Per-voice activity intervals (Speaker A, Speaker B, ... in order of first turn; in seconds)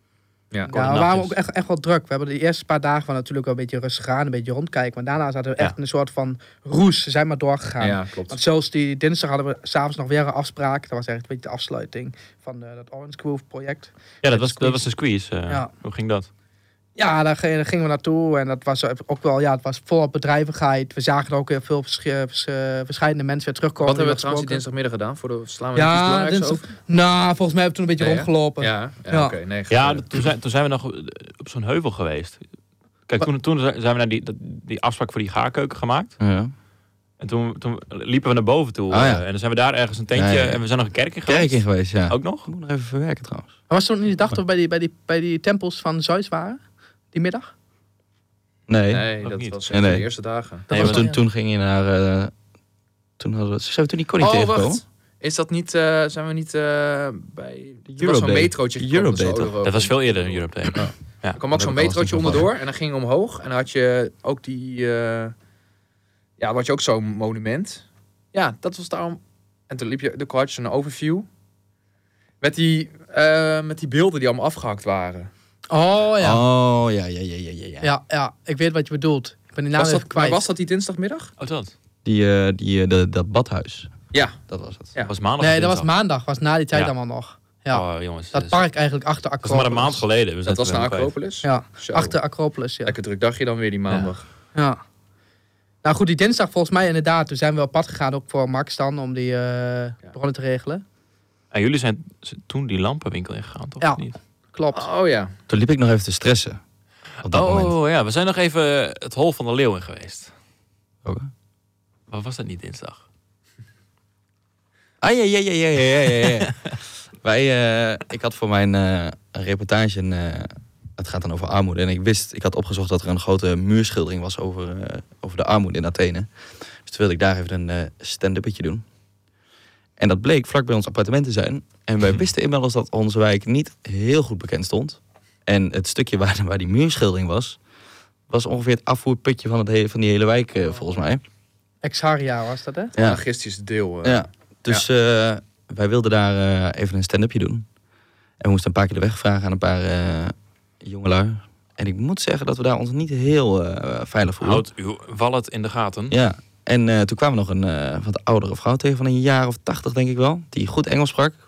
Speaker A: 0.7-14.8, 17.0-24.6, 25.8-29.4, 43.7-46.6, 47.1-47.5, 50.7-51.2, 75.7-76.4, 77.8-80.4, 85.4-90.0, 91.4-93.0, 94.5-94.8, 95.8-100.8, 103.8-104.8, 141.8-142.9
Speaker B: 0.7-1.4, 14.2-16.3, 29.7-32.4, 33.1-36.1, 37.2-42.5, 49.2-49.6, 50.7-51.1, 59.6-61.4, 81.4-81.7, 85.0-85.9, 87.7-88.6, 89.4-91.1, 101.5-104.1, 107.2-110.3, 112.1-113.0, 154.4-156.2
Speaker C: 7.8-8.4, 23.8-26.7, 28.0-30.1, 48.9-50.7, 54.2-60.5, 61.4-65.3, 66.4-71.3, 72.4-75.3, 79.8-81.3, 84.1-84.4, 90.5-92.2, 92.8-94.2, 104.7-105.3, 143.0-144.9
Speaker D: 36.2-36.5, 38.9-39.2, 40.1-40.6, 41.3-43.5, 48.7-49.1, 49.7-50.1, 50.7-52.3, 53.2-54.8, 57.9-59.5, 61.5-62.5, 76.2-77.9, 82.0-83.9, 84.5-84.9, 105.5-106.6, 107.2-107.7, 115.0-116.7, 117.2-126.3, 126.8-128.8, 130.0-137.6, 138.3-141.2, 143.0-143.2, 144.0-147.7, 148.4-154.6, 156.1-161.4